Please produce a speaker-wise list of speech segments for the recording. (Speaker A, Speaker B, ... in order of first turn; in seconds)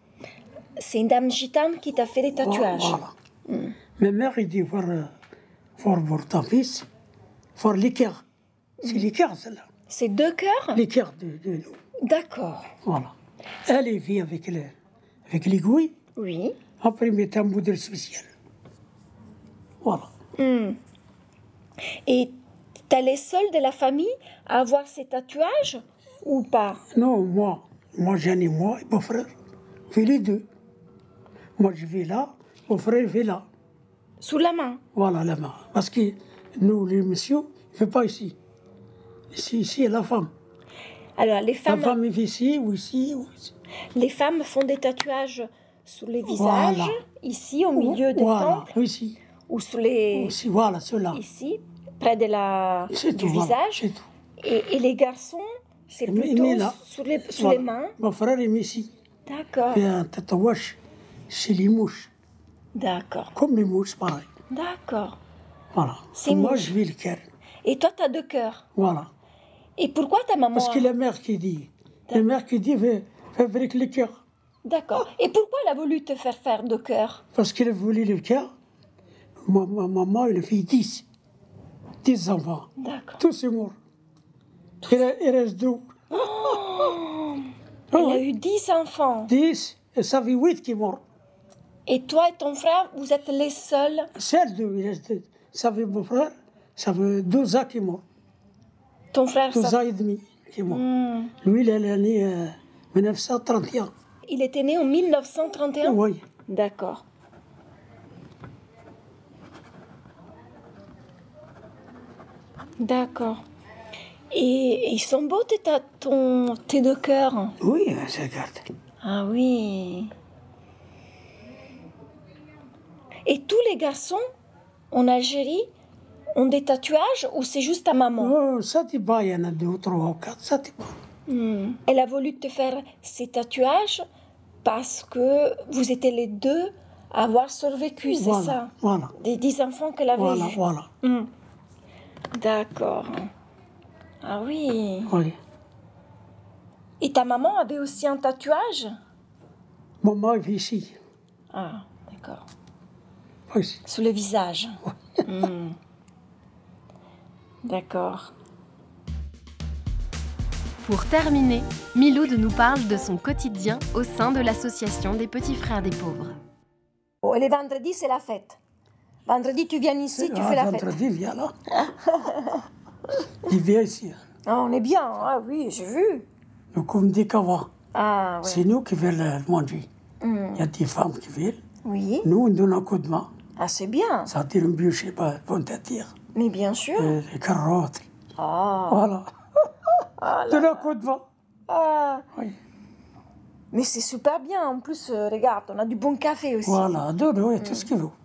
Speaker A: 0.8-3.8, 8.8-9.1, 9.9-10.8, 12.0-12.7, 16.2-16.6, 20.4-20.8, 22.1-22.4, 22.9-26.9, 34.2-34.8, 41.2-42.0, 43.9-48.7, 49.5-50.4, 51.1-53.9, 54.4-58.0, 59.3-59.9, 62.7-63.3, 64.5-65.2, 66.1-66.8, 67.6-68.6, 69.8-70.9, 74.7-77.2, 82.8-83.2, 86.1-89.3, 91.9-94.1, 99.1-99.8, 100.7-101.3, 104.3-107.0, 112.8-113.4, 114.3-117.6, 119.0-120.1, 123.3-124.2, 124.9-125.7, 126.3-128.3, 131.3-134.1, 134.6-141.3, 142.3-143.3, 144.2-145.2, 147.0-149.0, 151.5-152.5, 153.9-155.8, 157.6-158.3, 167.2-168.6, 169.2-171.0, 171.7-172.7, 174.4-176.3, 177.9-178.7, 180.2-180.7, 181.8-182.3, 183.6-184.3, 186.3-187.2, 188.4-189.1, 190.2-190.9, 191.7-192.3, 193.7-197.0, 197.6-197.9
Speaker B: 2.4-3.1, 4.0-5.1, 5.8-6.9, 7.6-8.2, 8.8-9.7, 10.7-11.8, 12.8-13.1, 13.7-14.8, 15.3-15.9, 16.8-18.3, 19.8-20.1, 26.9-29.3, 29.9-30.4, 31.6-33.5, 34.9-38.4, 39.3-40.3, 41.7-43.5, 46.3-47.0, 47.8-49.2, 50.1-51.2, 52.9-54.1, 56.0-58.9, 59.7-62.1, 63.3-64.3, 65.7-67.2, 68.8-69.1, 70.5-74.2, 77.3-78.5, 79.4-81.0, 82.0-83.8, 84.9-86.5, 87.9-88.2, 89.3-91.0, 94.2-98.0, 99.5-100.8, 101.4-103.9, 105.8-106.2, 117.6-118.7, 128.2-130.9, 138.1-139.1, 140.1-140.9, 145.1-145.4, 150.0-151.0, 153.5-153.8, 170.2-171.5, 173.4-174.2, 176.7-177.7, 178.4-179.9, 180.6-181.6, 182.2-183.3, 184.3-186.1, 187.0-188.1, 188.9-189.7, 190.5-191.2, 196.7-198.1
Speaker C: 160.8-166.3